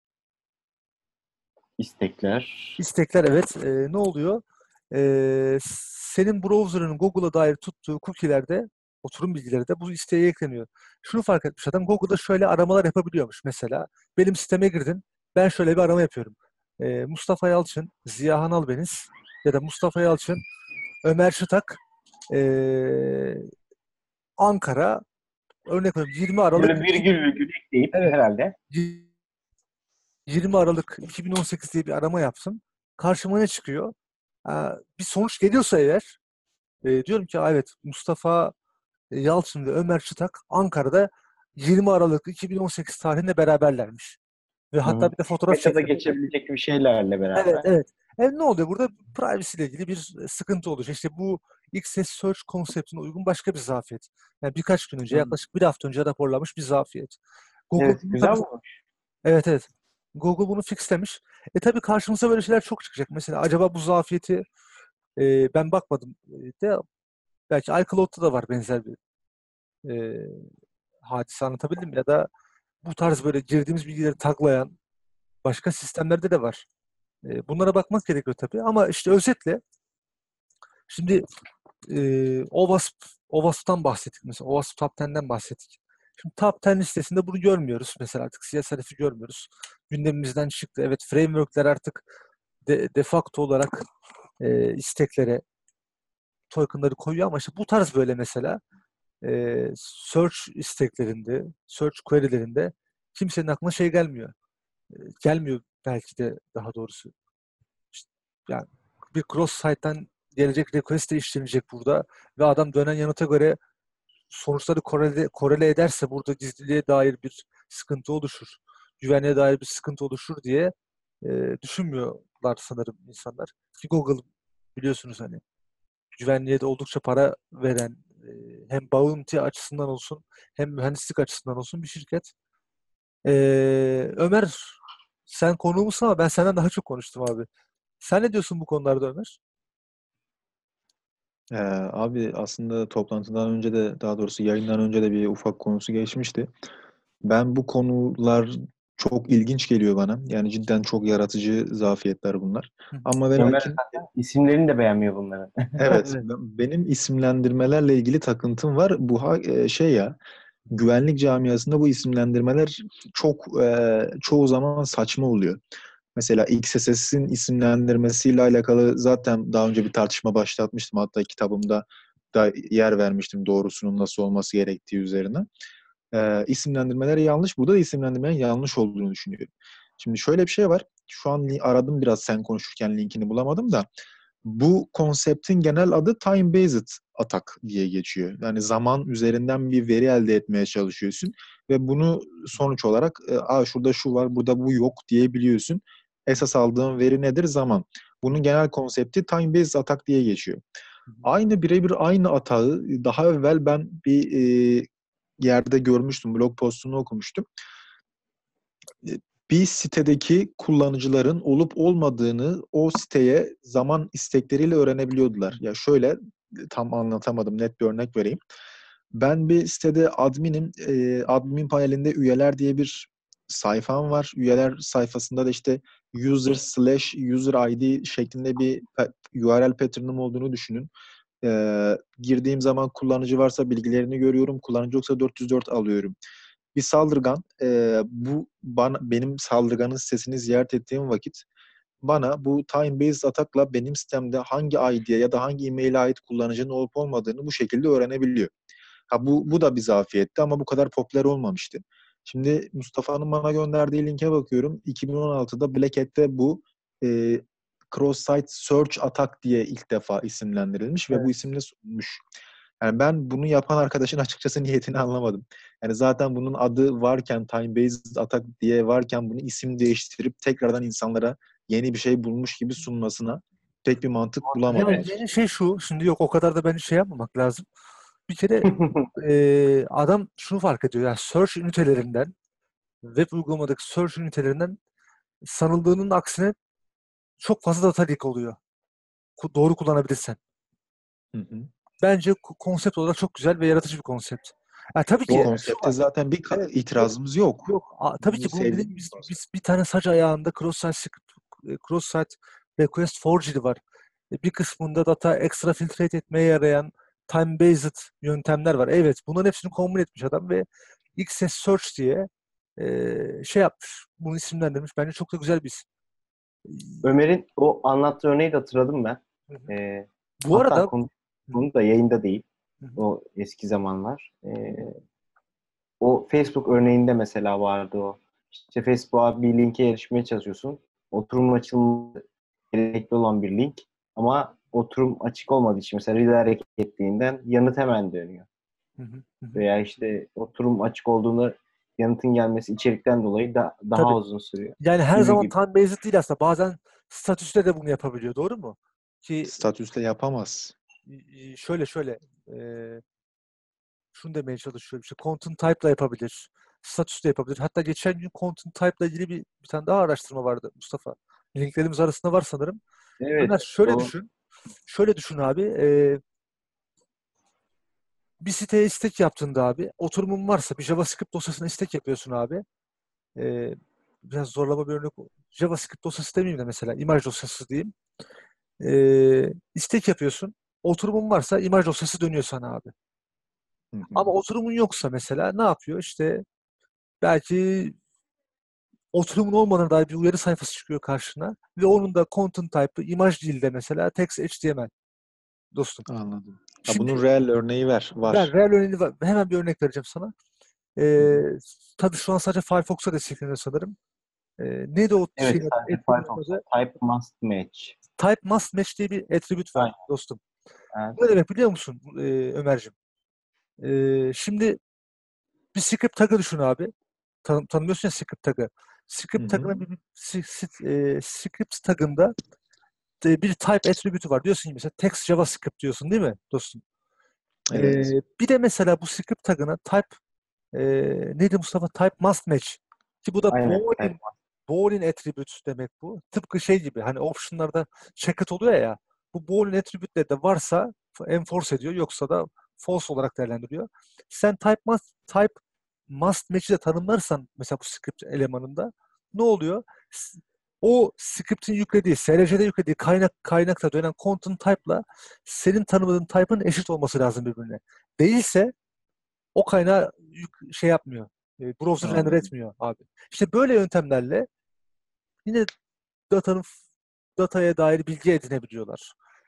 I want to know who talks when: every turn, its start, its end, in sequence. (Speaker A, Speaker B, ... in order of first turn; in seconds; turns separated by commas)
Speaker A: 1.8-2.8, Speaker B: 2.8-20.4, Speaker B: 21.0-21.8, Speaker B: 22.3-23.5, Speaker B: 24.4-25.0, Speaker B: 25.7-27.1, Speaker A: 26.6-28.6, Speaker B: 28.7-29.1, Speaker B: 30.3-33.9, Speaker B: 34.5-36.2, Speaker B: 36.8-38.5, Speaker B: 39.1-44.2, Speaker B: 44.7-46.0, Speaker A: 44.9-47.7, Speaker B: 47.4-57.2, Speaker A: 55.1-55.4, Speaker B: 57.7-58.4, Speaker A: 57.8-58.8, Speaker B: 59.2-64.5, Speaker B: 65.2-66.8, Speaker B: 67.5-69.0, Speaker B: 69.8-70.5, Speaker B: 71.0-72.3, Speaker B: 72.8-74.7, Speaker B: 75.4-76.7, Speaker B: 77.2-79.6, Speaker B: 80.9-81.2, Speaker B: 81.9-92.0, Speaker B: 92.7-93.8, Speaker B: 94.4-95.4, Speaker B: 96.5-98.6, Speaker B: 99.2-104.3, Speaker B: 104.9-107.1, Speaker B: 107.9-113.6, Speaker B: 114.3-124.2, Speaker B: 124.8-125.4, Speaker B: 126.2-132.3, Speaker B: 133.2-137.5, Speaker B: 138.0-139.4, Speaker C: 141.5-146.5, Speaker C: 147.2-153.9, Speaker A: 153.4-156.0, Speaker C: 155.8-160.2, Speaker B: 155.9-156.3, Speaker C: 160.7-165.6, Speaker C: 166.2-175.5, Speaker C: 176.1-183.9, Speaker C: 184.4-200.6, Speaker C: 201.2-204.9, Speaker C: 205.4-207.4, Speaker C: 209.0-218.4, Speaker C: 219.1-230.9, Speaker C: 231.4-236.2, Speaker C: 236.8-241.4, Speaker C: 242.0-248.5, Speaker C: 249.1-262.2, Speaker C: 262.8-275.2, Speaker B: 274.7-277.7, Speaker B: 278.3-282.3, Speaker A: 278.6-279.1, Speaker B: 283.0-284.8, Speaker B: 285.4-286.6, Speaker B: 287.4-288.6, Speaker B: 289.4-290.4, Speaker C: 291.3-291.7, Speaker B: 292.0-296.0, Speaker C: 295.3-299.3, Speaker B: 296.5-297.1, Speaker B: 297.6-303.8, Speaker B: 304.3-315.9, Speaker B: 316.7-317.0, Speaker A: 317.0-322.4, Speaker B: 320.4-320.9, Speaker A: 323.0-325.0, Speaker A: 326.0-338.5, Speaker B: 339.0-339.6, Speaker A: 339.5-345.5, Speaker B: 344.8-349.7, Speaker C: 349.5-350.8, Speaker B: 351.1-353.0, Speaker B: 354.1-362.8, Speaker A: 363.2-364.1, Speaker B: 363.4-364.3, Speaker B: 364.9-366.2, Speaker B: 368.4-372.6, Speaker B: 373.4-377.9, Speaker B: 378.8-382.9, Speaker C: 383.9-384.3, Speaker B: 384.1-386.4, Speaker B: 387.2-388.0, Speaker B: 389.1-394.9, Speaker B: 395.7-396.1, Speaker C: 396.1-398.5, Speaker B: 396.9-397.2, Speaker B: 398.3-400.3, Speaker B: 401.0-404.0, Speaker B: 404.6-406.6, Speaker A: 405.4-408.0, Speaker B: 408.2-410.4, Speaker A: 410.9-411.2, Speaker B: 411.2-412.9, Speaker B: 413.8-414.8, Speaker B: 415.7-416.9, Speaker B: 417.4-422.3, Speaker C: 419.4-419.9, Speaker B: 423.2-426.8, Speaker C: 427.7-428.1, Speaker B: 427.7-430.1, Speaker B: 430.7-445.6, Speaker A: 433.5-434.3, Speaker B: 446.1-458.7, Speaker B: 459.6-464.5, Speaker C: 462.0-462.5, Speaker B: 465.4-465.7, Speaker B: 466.3-466.8, Speaker B: 467.4-469.1